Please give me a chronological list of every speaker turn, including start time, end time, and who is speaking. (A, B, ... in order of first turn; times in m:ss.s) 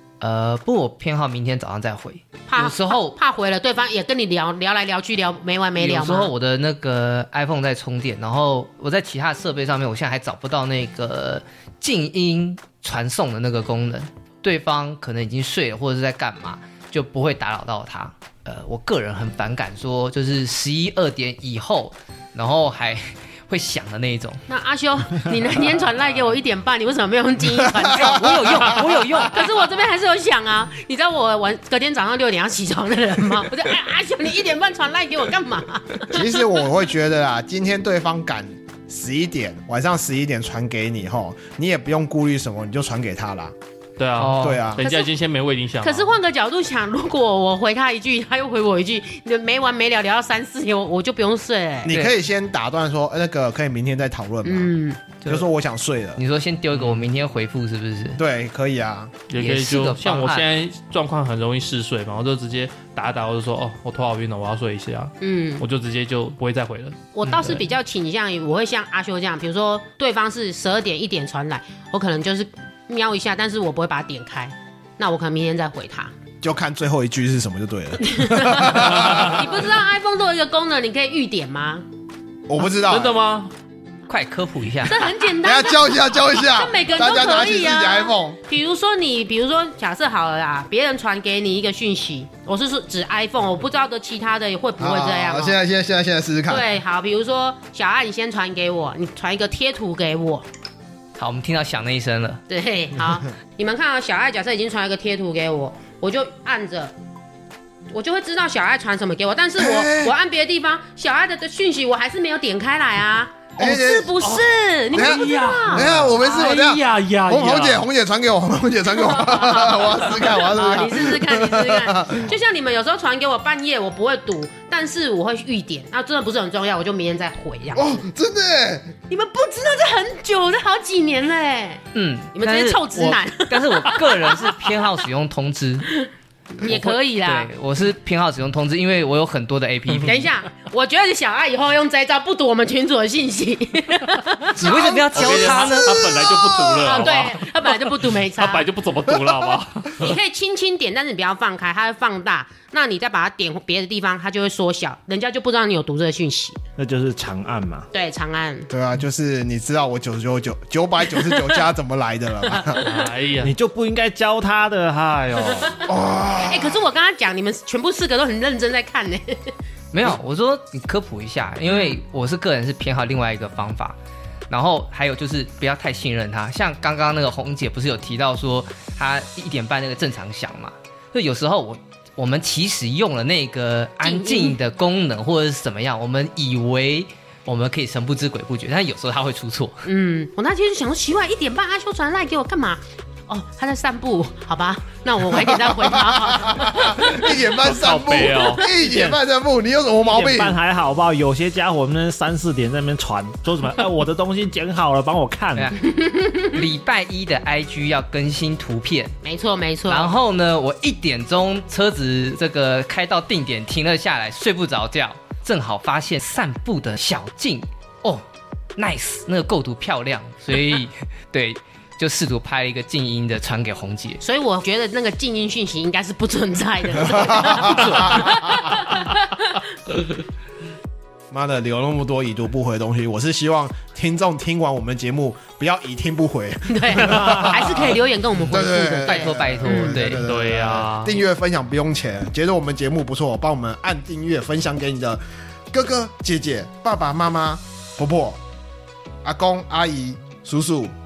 0:00.2-0:03.2 A
0:02.5-0:06.3 B
0:05.8-0:24.4 A
0:24.5-0:36.4 B
0:27.7-0:28.9 C
0:27.9-0:29.4 A
0:36.1-0:43.6 C
0:44.0-0:46.1 D
0:44.2-0:44.6 A
0:44.4-0:44.8 C
0:44.8-0:45.1 B
0:45.8-0:51.9 B
0:51.8-0:54.7 C
0:51.9-0:52.2 A
0:54.4-0:55.0 B
0:55.3-0:56.2 C
0:56.2-0:58.2 A
0:56.7-0:57.0 D
0:58.2-0:59.2 C
0:59.3-1:07.6 D
0:59.3-1:00.5 A
1:05.2-1:05.6 B
1:07.1-1:16.1 B
1:07.3-1:07.6 A
1:16.4-1:19.6 C
1:18.0-1:21.8 B
1:22.5-1:23.1 C
1:22.8-1:23.5 D
1:24.1-1:25.1 A
1:24.8-1:35.6 B
1:25.4-1:28.4 C
1:34.8-1:36.7 C
1:36.5-1:40.4 B
1:41.2-1:42.4 A
1:42.5-1:46.9 B
1:47.9-1:56.2 B
1:49.6-1:50.1 C
1:53.6-1:54.2 C
1:54.2-1:57.9 D
1:54.9-2:02.3 C
1:58.9-2:08.0 B
2:07.7-2:08.9 C
2:09.1-2:14.8 B
2:11.9-2:15.9 A
2:15.8-2:17.5 B
2:16.6-2:20.2 A
2:20.0-2:25.5 B
2:24.5-2:26.0 A
2:24.6-2:27.0 C
2:25.1-2:30.1 D
2:26.8-2:28.7 B
2:30.0-2:36.6 B
2:36.8-2:37.9 E
2:37.9-2:38.7 B
2:38.7-2:42.8 C
2:41.1-2:41.4 B
2:42.8-2:43.5 D
2:43.4-2:45.7 E
2:45.8-2:46.8 C
2:46.3-2:49.5 B
2:49.9-2:54.0 A
2:51.7-2:52.0 B
2:54.5-3:09.8 A
3:04.0-3:04.6 B
3:09.8-3:17.3 B
3:15.6-3:20.6 C
3:17.6-3:18.7 D
3:20.0-3:25.7 E
3:25.6-3:29.2 A
3:26.0-3:26.3 B
3:29.2-3:30.1 B
3:29.9-3:38.2 A
3:38.8-3:44.2 A
3:44.2-3:49.6 B
3:47.1-3:48.3 C
3:47.6-3:48.6 A
3:51.3-4:08.4 C
3:56.7-4:00.2 B
3:59.0-4:00.2 A
4:00.2-4:01.2 D
4:09.2-4:10.9 C